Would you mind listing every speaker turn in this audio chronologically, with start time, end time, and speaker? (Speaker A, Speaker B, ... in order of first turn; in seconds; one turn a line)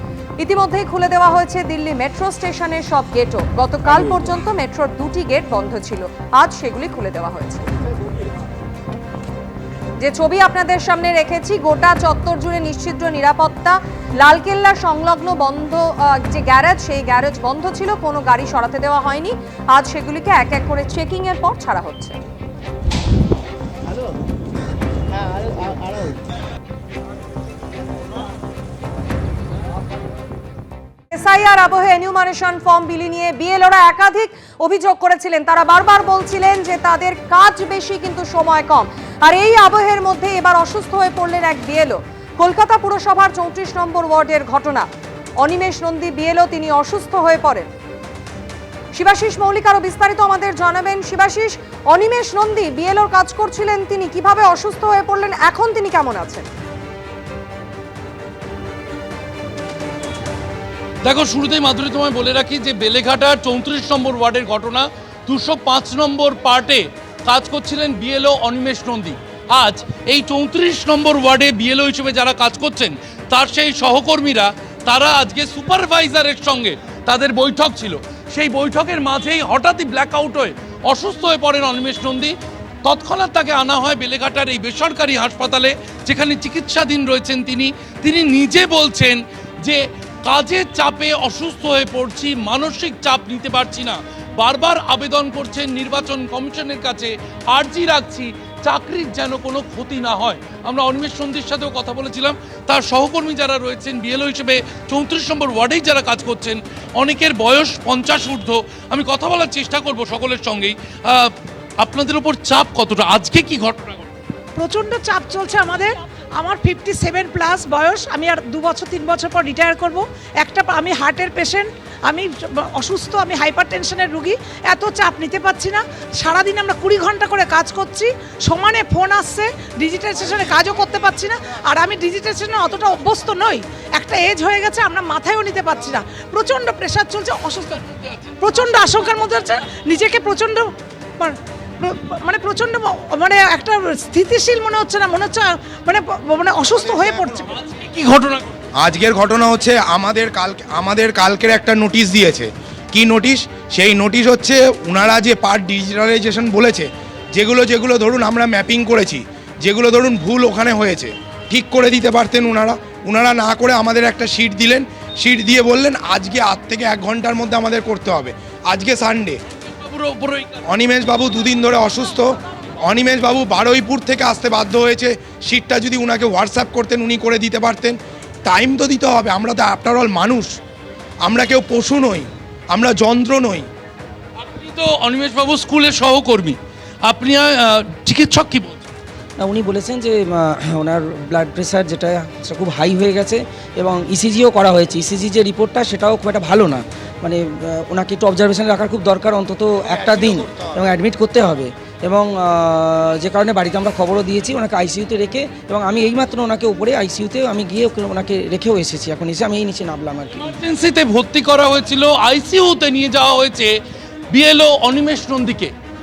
Speaker A: 0.4-7.7
Speaker A: 10.0-22.2
Speaker A: 31.1-44.9
Speaker A: 45.4-47.7
Speaker A: 49.0-56.5
Speaker B: 61.0-82.3
Speaker B: 82.8-114.1
Speaker C: 114.6-137.8
Speaker B: 137.9-138.8
Speaker C: 138.4-147.5
Speaker D: 146.7-147.6
Speaker B: 147.5-148.6
Speaker D: 148.8-169.4
Speaker B: 169.8-170.6
Speaker D: 170.7-180.6
Speaker D: 181.2-183.7
Speaker B: 184.4-188.9
Speaker E: 189.4-210.5
Speaker D: 199.9-200.8
Speaker B: 210.4-213.7
Speaker B: 214.3-215.7